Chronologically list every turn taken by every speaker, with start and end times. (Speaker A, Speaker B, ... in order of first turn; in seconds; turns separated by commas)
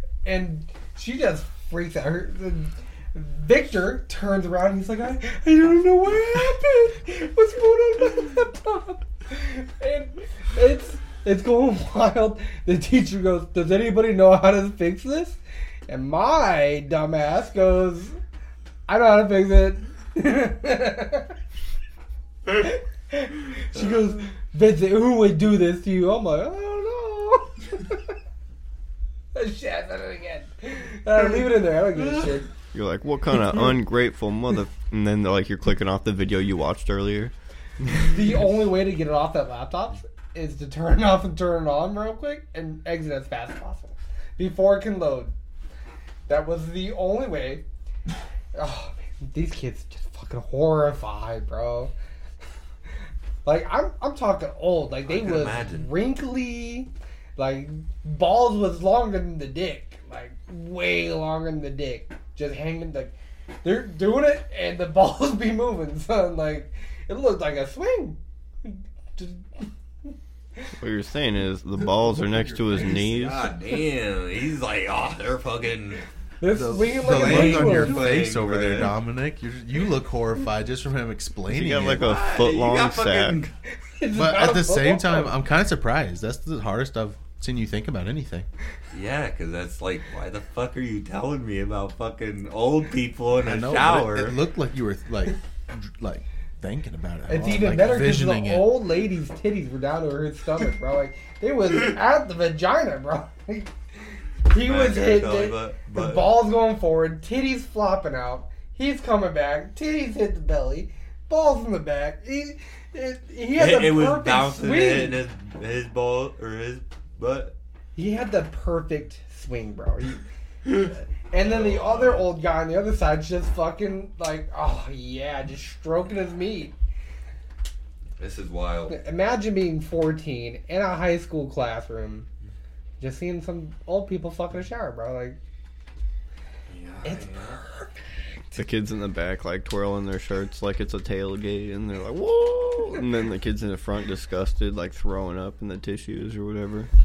Speaker A: 0.2-18.2, Speaker A: 18.9-21.4, Speaker A: 22.5-28.1, Speaker A: 29.3-32.5, Speaker B: 32.7-37.3, Speaker A: 37.9-45.3, Speaker A: 46.3-47.6, Speaker A: 48.5-51.9, Speaker A: 53.5-69.7, Speaker C: 55.1-56.0, Speaker B: 70.8-73.5, Speaker C: 72.8-76.0, Speaker A: 76.4-78.1, Speaker D: 76.5-82.1, Speaker C: 77.0-78.9, Speaker B: 81.5-83.4, Speaker C: 82.0-83.5, Speaker A: 83.8-85.3, Speaker D: 84.1-88.5, Speaker C: 88.9-94.4, Speaker D: 93.4-98.7, Speaker A: 97.3-103.7, Speaker A: 104.5-115.2, Speaker C: 104.5-106.4, Speaker C: 113.6-117.5, Speaker A: 118.0-126.8, Speaker C: 121.4-122.3, Speaker C: 128.2-129.0, Speaker A: 128.9-132.3, Speaker A: 133.0-135.4, Speaker C: 136.7-137.6, Speaker A: 137.0-137.9, Speaker B: 138.6-146.9